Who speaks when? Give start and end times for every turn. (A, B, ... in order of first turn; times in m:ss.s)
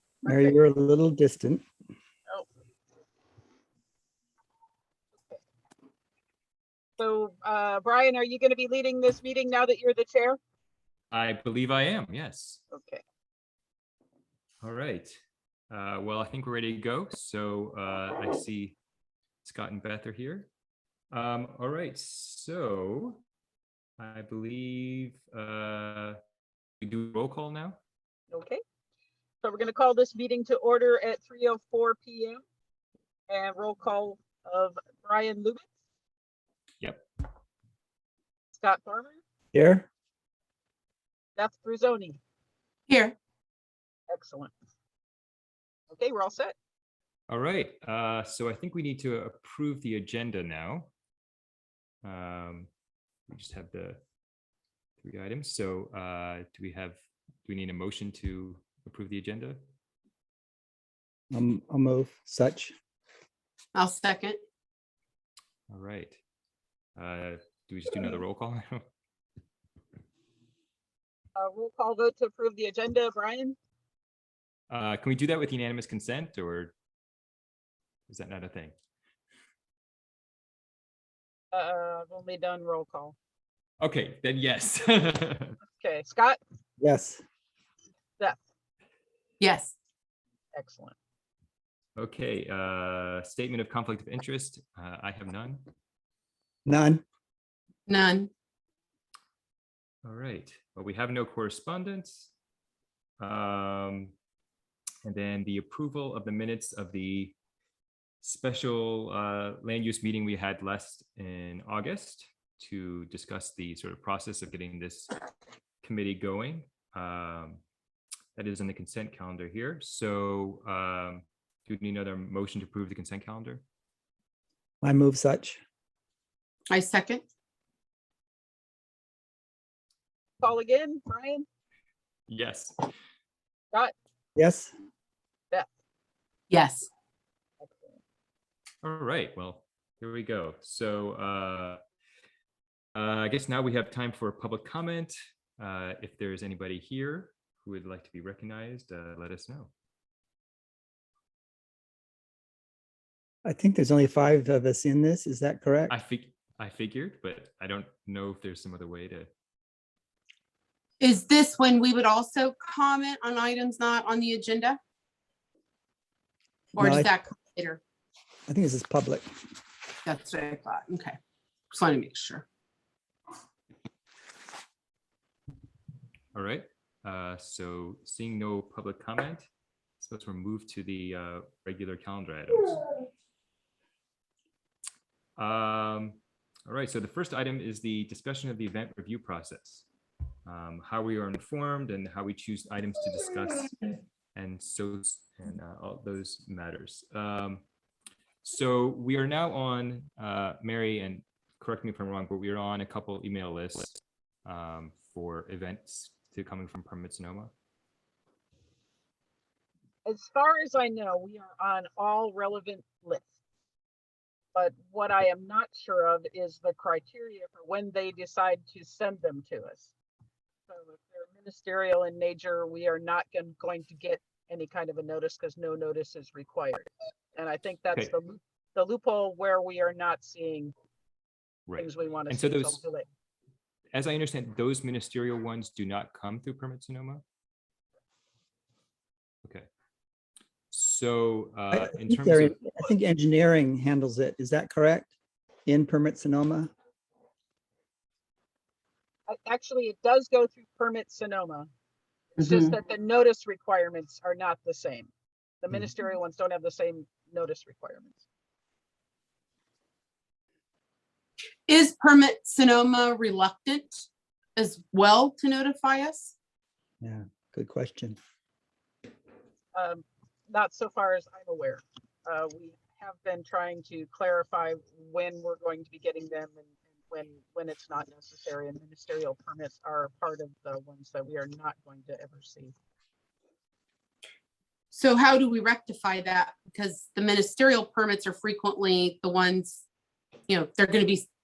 0:00.2-0:01.6 A
0:07.0-0:10.4 B
0:11.1-0:12.6 C
0:12.7-0:13.0 B
0:14.6-0:15.1 C
0:15.7-0:18.8 C
0:19.4-0:20.5 C
0:21.1-0:23.2 C
0:24.0-0:26.2 C
0:26.8-0:27.8 C
0:28.3-0:28.6 B
0:29.4-0:32.4 B
0:33.3-0:35.7 B
0:38.5-0:39.2 B
0:39.5-0:39.9 A
0:41.4-0:42.2 B
0:42.9-0:43.1 D
0:44.1-0:44.5 B
0:45.9-0:46.5 B
0:47.3-0:50.9 C
0:52.0-0:52.7 C
0:53.3-0:54.0 C
0:55.0-0:59.6 C
1:01.3-1:02.7 A
1:03.7-1:04.4 D
1:05.7-1:06.2 C
1:07.0-1:08.8 C
1:11.3-1:13.6 B
1:14.7-1:16.7 C
1:18.1-1:18.7 C
1:21.5-1:23.2 B
1:23.8-1:25.6 C
1:25.8-1:26.4 B
1:26.8-1:27.2 A
1:29.4-1:29.7 D
1:30.5-1:31.0 B
1:32.0-1:35.6 C
1:36.6-1:37.0 A
1:37.9-1:38.3 D
1:40.0-1:42.3 C
1:43.2-1:44.1 C
1:45.0-1:47.3 C
1:48.2-1:55.1 C
1:55.8-1:57.6 C
1:58.4-2:03.6 C
2:04.8-2:05.6 A
2:06.7-2:07.2 D
2:10.4-2:11.4 B
2:12.3-2:12.9 C
2:14.4-2:14.7 A
2:16.5-2:16.9 D
2:17.6-2:18.0 B
2:18.8-2:21.8 C
2:23.0-2:29.7 C
2:33.4-2:35.9 A
2:35.9-2:39.3 C
2:41.0-2:44.8 D
2:46.7-2:47.8 D
2:46.8-2:47.1 A
2:48.5-2:49.3 A
2:50.0-2:51.2 D
2:51.7-2:52.4 D
2:56.3-2:59.5 C
3:00.0-3:02.8 C
3:05.4-3:09.9 C
3:10.4-3:17.6 C
3:18.4-3:27.5 C
3:30.0-3:33.3 B
3:34.5-3:39.9 B
3:40.7-3:50.7 B
3:51.7-3:52.8 C
3:51.8-3:53.0 B
3:53.9-3:57.2 C
4:00.7-4:02.7 C
4:01.7-4:05.1 A
4:05.7-4:06.7 A
4:09.3-4:11.7 B
4:12.4-4:15.1 B
4:12.4-4:12.7 D
4:15.6-4:18.2 B
4:21.7-4:26.3 D
4:27.0-4:28.2 A
4:29.7-4:42.7 B
4:44.9-4:49.8 D
4:50.5-4:51.2 D